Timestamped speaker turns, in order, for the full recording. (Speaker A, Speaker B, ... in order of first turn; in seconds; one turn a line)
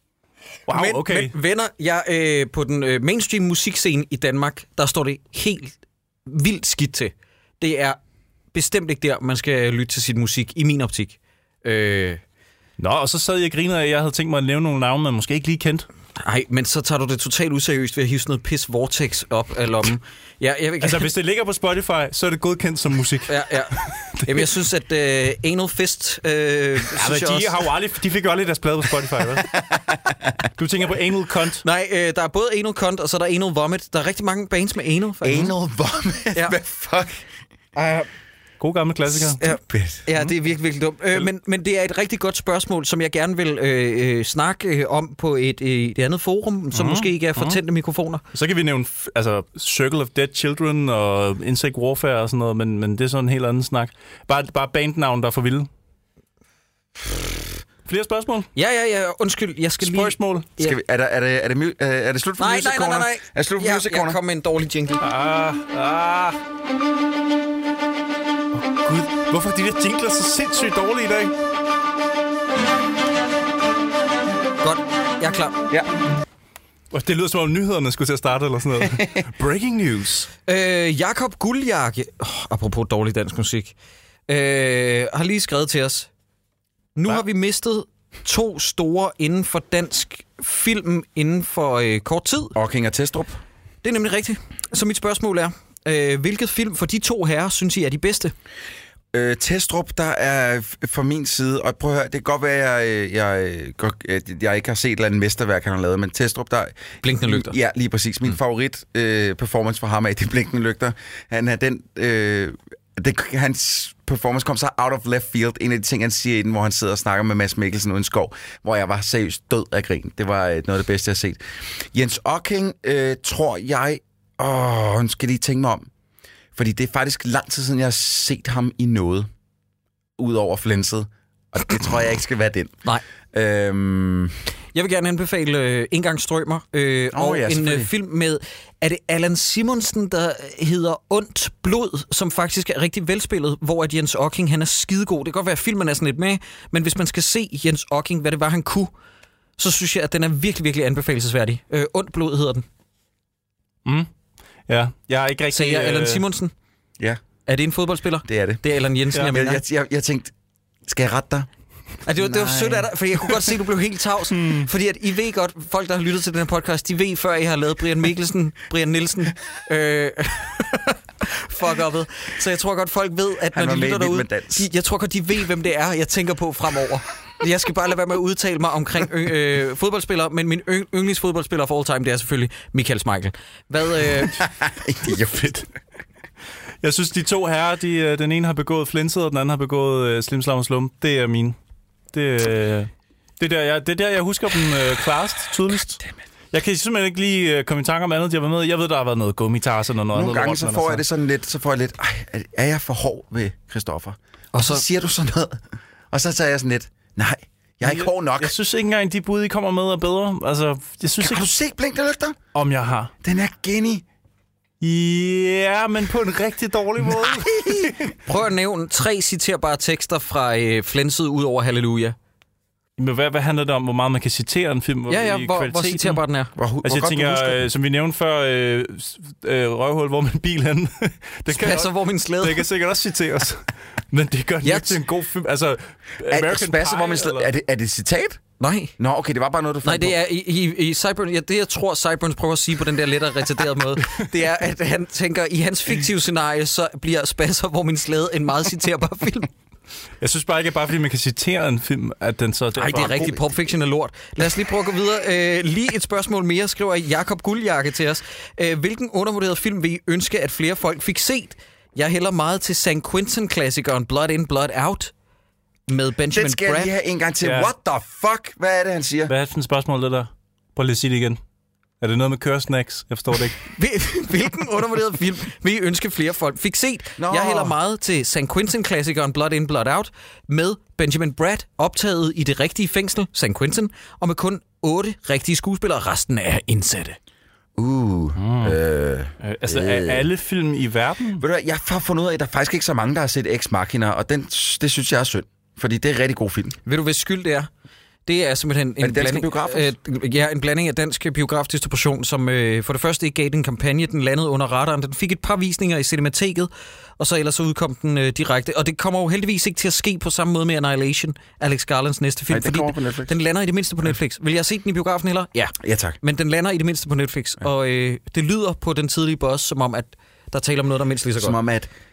Speaker A: 0.7-1.3
Speaker B: 0.7-8.0
Speaker B: 8.5-12.2
Speaker A: 12.8-15.9
Speaker B: 16.2-21.1
Speaker A: 20.8-24.4
Speaker B: 23.3-27.5
Speaker A: 26.9-29.5
Speaker C: 29.5-30.4
Speaker A: 30.6-31.6
Speaker B: 31.6-35.5
Speaker C: 35.2-37.2
Speaker B: 37.7-38.1
Speaker A: 38.6-39.5
Speaker B: 39.1-48.2
Speaker C: 39.7-40.0
Speaker A: 46.7-47.6
Speaker A: 48.3-55.7
Speaker A: 57.9-58.5
Speaker B: 58.5-60.8
Speaker A: 59.8-60.5
Speaker C: 60.6-64.2
Speaker B: 62.4-65.0
Speaker A: 65.0-66.4
Speaker A: 68.5-71.3
Speaker B: 74.6-75.6
Speaker A: 76.9-80.3
Speaker C: 78.8-79.2
Speaker B: 80.5-83.7
Speaker B: 84.3-86.1
Speaker B: 87.0-92.5
Speaker C: 92.5-93.4
Speaker B: 93.8-98.3
Speaker C: 99.1-125.9
Speaker B: 107.0-107.5
Speaker C: 126.5-129.3
Speaker C: 130.2-132.8
Speaker C: 133.3-134.4
Speaker B: 134.7-148.9
Speaker C: 137.1-137.9
Speaker B: 149.6-152.6
Speaker A: 154.7-156.2
Speaker B: 155.5-156.5
Speaker B: 157.4-159.6
Speaker C: 158.2-158.6
Speaker C: 159.2-160.3
Speaker C: 160.9-161.5
Speaker B: 162.1-184.4
Speaker C: 162.2-162.9
Speaker A: 164.3-164.7
Speaker C: 173.5-174.7
Speaker C: 184.3-185.7
Speaker A: 186.8-191.6
Speaker A: 192.1-196.0
Speaker C: 195.7-196.2
Speaker A: 196.5-201.0
Speaker C: 200.1-208.6
Speaker B: 204.5-204.8
Speaker A: 207.8-211.5
Speaker C: 211.2-212.4
Speaker A: 212.5-213.1
Speaker C: 213.2-214.1
Speaker A: 214.8-218.0
Speaker C: 217.0-218.1
Speaker B: 218.3-222.2
Speaker A: 223.0-226.2
Speaker B: 225.1-226.5
Speaker C: 226.6-227.7
Speaker A: 226.8-237.5
Speaker B: 231.5-232.7
Speaker B: 234.6-235.0
Speaker C: 236.3-238.4
Speaker B: 238.6-238.9
Speaker C: 239.0-240.2
Speaker B: 239.8-249.5
Speaker A: 250.2-253.3
Speaker B: 252.8-265.1
Speaker C: 252.9-253.6
Speaker B: 265.9-266.9
Speaker C: 266.3-269.3
Speaker A: 267.4-267.7
Speaker A: 269.3-271.4
Speaker A: 272.0-273.6
Speaker B: 273.6-287.2
Speaker C: 277.2-277.8
Speaker C: 287.8-290.3
Speaker A: 288.4-288.8
Speaker A: 289.4-291.4
Speaker C: 291.4-296.8
Speaker B: 296.9-297.7
Speaker B: 298.3-321.6
Speaker C: 299.0-299.9
Speaker C: 312.5-313.3
Speaker C: 315.8-316.2
Speaker C: 321.4-321.9